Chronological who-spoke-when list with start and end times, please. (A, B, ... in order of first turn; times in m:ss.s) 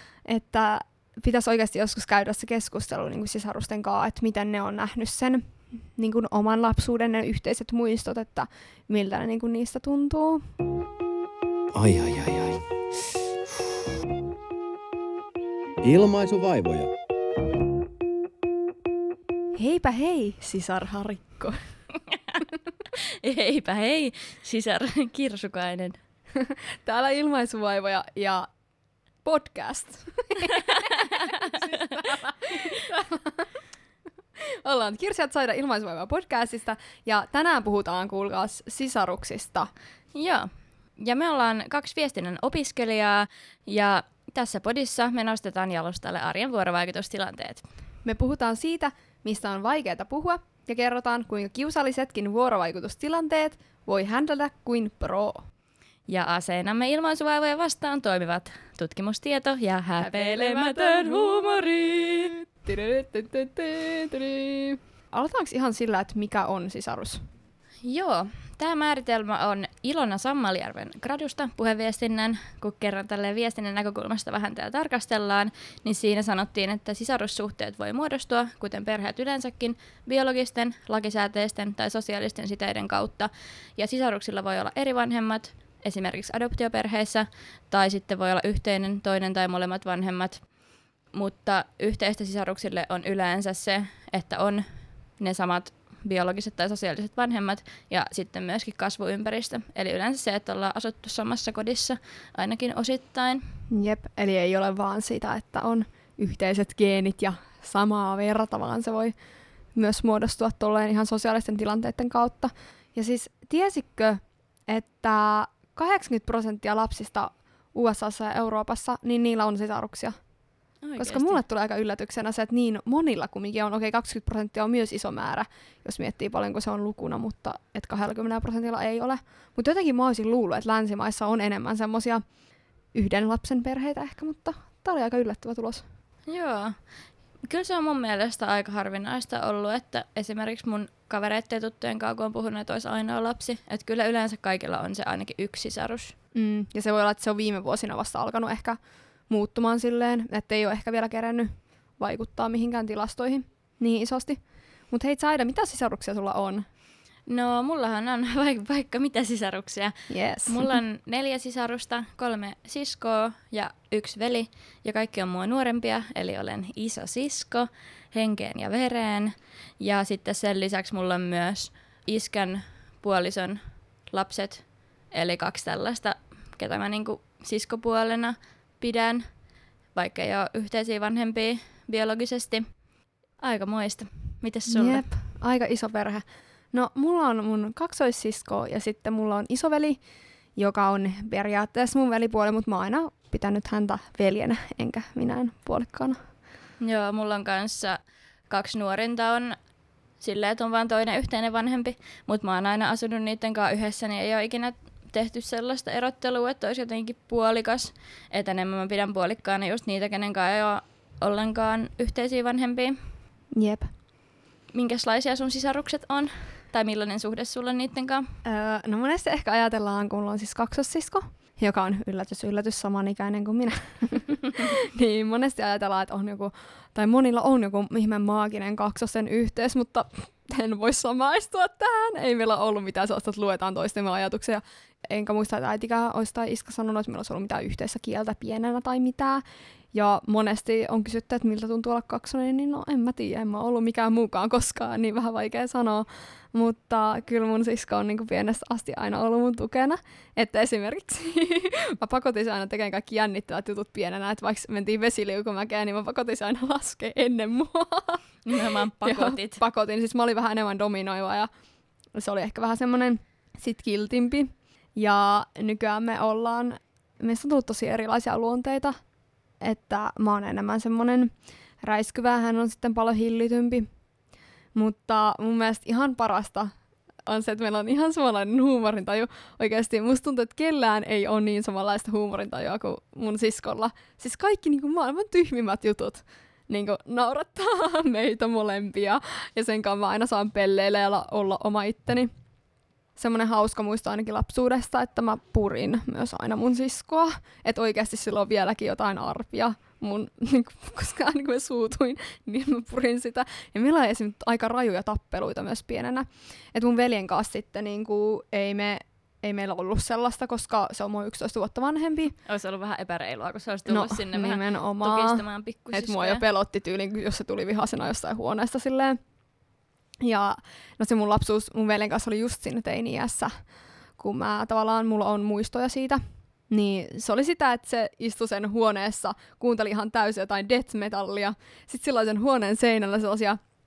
0:00.2-0:05.4 A
0:06.0-0:10.4 A
0:11.7-0:12.6 B
0:15.8-0:16.9 B
0:19.6-0:21.6 A
0:22.1-0:22.4 C
0:22.9-0:26.0 C
0:26.4-0:28.5 A
0:29.2-0:33.5 A
0:30.6-0:32.0 C
0:34.4-0:39.7 A
0:40.1-0:47.6 C
0:48.0-0:55.4 A
0:56.1-1:02.3 C
1:00.0-1:07.2 A
1:07.8-1:30.4 C
1:31.1-1:34.6 C
1:35.2-1:43.4 C
1:43.7-1:49.1 A
1:49.7-2:00.2 A
2:00.8-2:01.4 C
2:01.0-2:12.2 A
2:12.9-2:15.8 A
2:16.3-2:16.8 C
2:17.5-2:26.1 C
2:26.3-2:28.8 A
2:29.3-2:36.6 A
2:37.3-2:39.9 C
2:40.1-2:40.8 A
2:40.4-2:59.3 C
2:59.9-3:02.7 C
3:03.4-3:05.0 C
3:04.7-3:10.0 A
3:10.6-3:16.2 A
3:16.8-3:19.6 C
3:20.2-3:33.0 C
3:33.5-3:33.9 A
3:34.7-3:38.3 C
3:38.4-4:18.2 A
4:18.4-4:19.6 C
4:19.0-4:21.5 A
4:22.2-4:29.0 A
4:29.6-4:31.3 A
4:31.8-4:33.9 A
4:34.7-4:36.7 A
4:37.2-4:52.3 A
4:53.2-5:12.4 A
5:12.4-5:16.4 C
5:13.9-5:19.2 A
5:20.2-5:23.5 A
5:24.2-5:33.6 A